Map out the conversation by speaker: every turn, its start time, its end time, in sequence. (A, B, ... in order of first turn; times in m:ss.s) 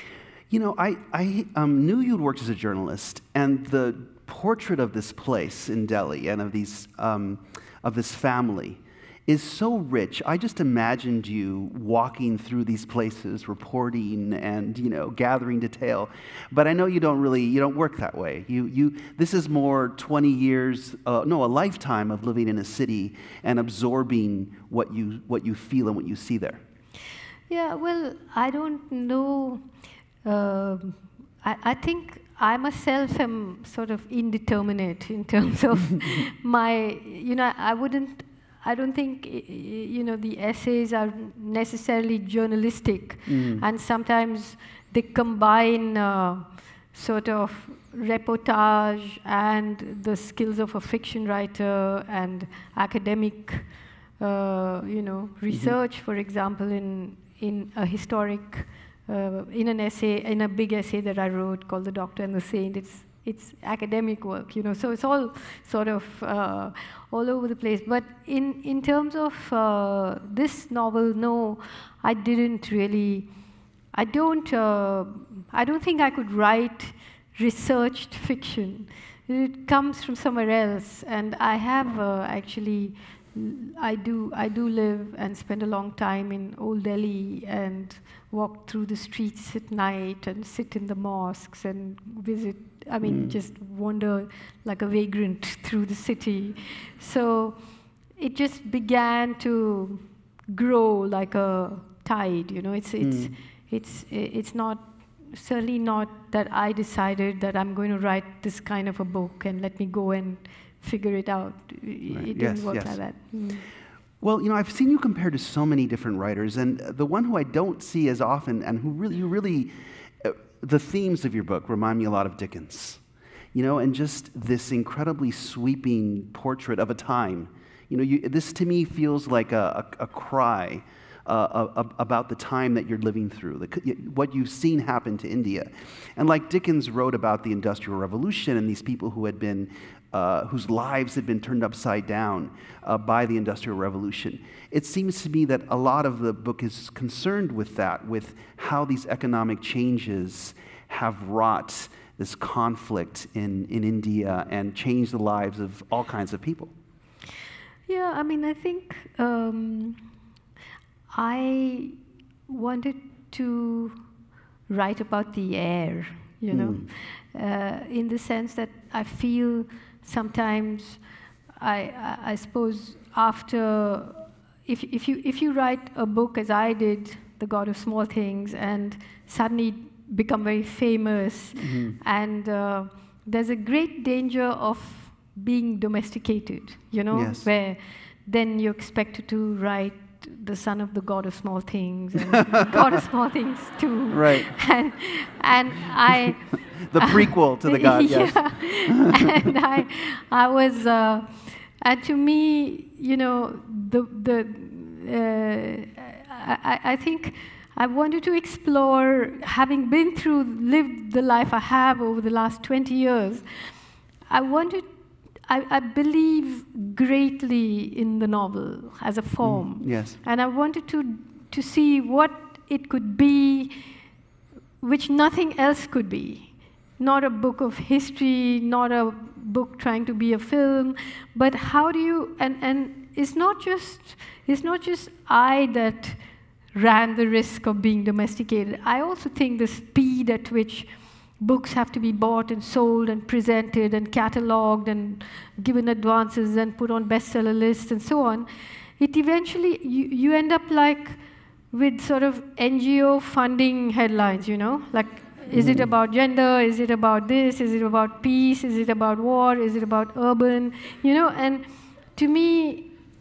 0:00.5-0:26.6 A
0:27.5-0:29.6 B
0:30.2-0:53.7 B
0:43.3-0:43.6 A
0:54.2-1:13.3 B
1:13.9-1:37.6 B
1:33.0-1:33.4 A
1:38.1-1:53.6 B
1:43.0-1:43.3 A
1:52.1-1:53.3 A
1:54.2-2:03.0 A
2:03.5-2:36.7 A
2:37.9-2:40.0 B
2:41.1-2:42.0 B
2:42.5-2:44.0 B
2:44.7-2:51.0 B
2:46.5-2:46.9 A
2:51.6-3:16.4 B
3:01.6-3:02.0 A
3:07.1-3:07.5 A
3:12.5-3:12.8 A
3:14.1-3:14.6 A
3:16.9-3:19.3 A
3:17.0-3:33.4 B
3:34.3-3:34.9 B
3:35.4-3:43.9 B
3:39.4-3:40.2 A
3:44.8-3:56.2 B
3:56.7-4:08.5 B
4:09.0-4:11.2 B
4:11.7-4:22.9 B
4:15.5-4:15.9 A